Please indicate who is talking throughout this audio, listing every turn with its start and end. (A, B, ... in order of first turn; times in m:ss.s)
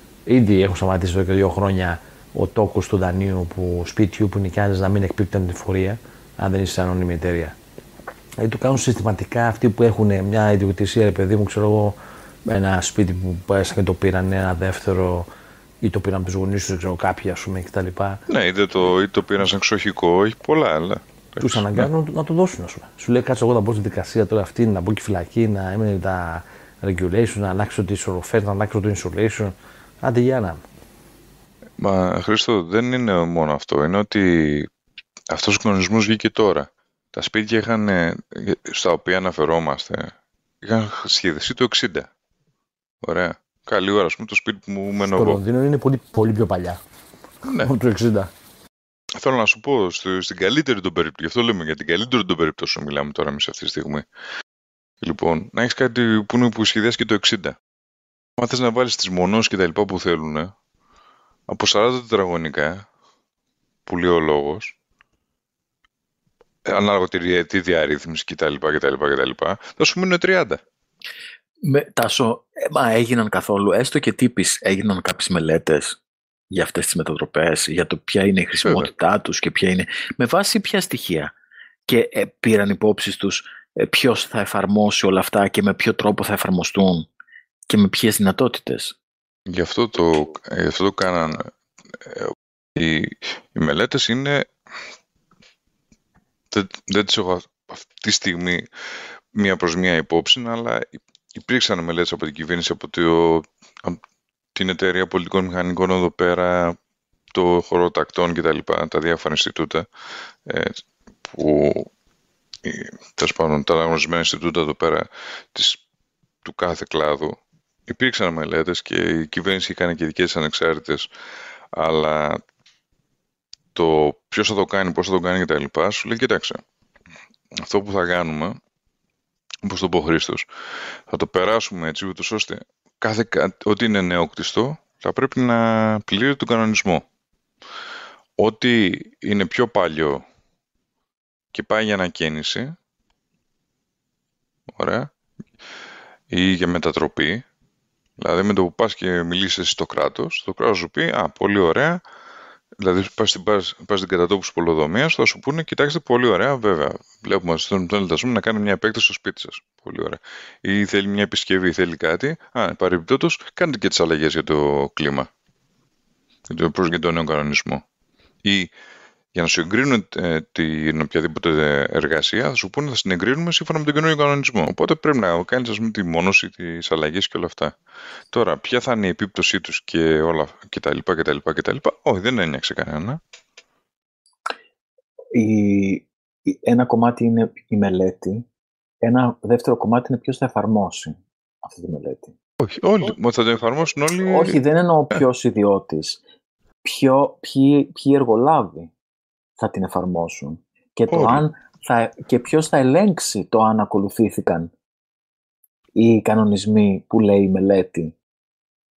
0:00.3-0:07.5 A
0:08.4-0:15.3 A
0:15.8-0:18.2 A
0:18.3-0:21.9 B
0:21.4-0:30.6 A
0:31.8-0:34.7 B
0:35.3-0:42.1 B
0:43.0-0:45.4 B
0:45.0-0:46.8 A
0:47.4-0:47.7 B
0:47.6-0:48.3 A
0:49.2-0:54.0 B
0:55.0-0:57.6 B
0:58.4-1:00.5 B
1:01.5-1:02.9 B
1:03.9-1:04.8 B
1:06.6-1:10.6 B
1:11.6-1:16.0 C
1:16.5-1:21.3 C
1:18.6-1:18.9 B
1:21.9-1:27.1 C
1:27.7-1:29.0 C
1:29.5-1:34.5 B
1:36.5-1:38.6 B
1:39.3-1:44.0 B
1:44.5-1:46.8 B
1:47.3-1:49.8 B
1:50.4-1:51.9 B
1:52.6-1:55.8 B
1:56.4-2:01.1 B
2:01.7-2:02.4 B
2:03.7-2:06.6 B
2:07.5-2:08.6 B
2:09.6-2:10.5 B
2:11.1-2:17.0 B
2:18.4-2:20.2 B
2:21.5-2:22.8 B
2:24.7-2:25.1 B
2:26.3-2:27.4 B
2:28.2-2:32.0 B
2:32.8-2:45.3 B
2:46.5-2:47.8 B
2:48.4-2:48.7 B
2:49.3-2:57.8 B
2:58.3-3:03.2 B
3:05.3-3:08.5 C
3:09.0-3:12.3 C
3:12.6-3:14.6 B
3:14.2-3:16.2 C
3:16.8-3:18.9 C
3:19.6-3:24.7 C
3:21.1-3:21.4 B
3:26.0-3:28.1 C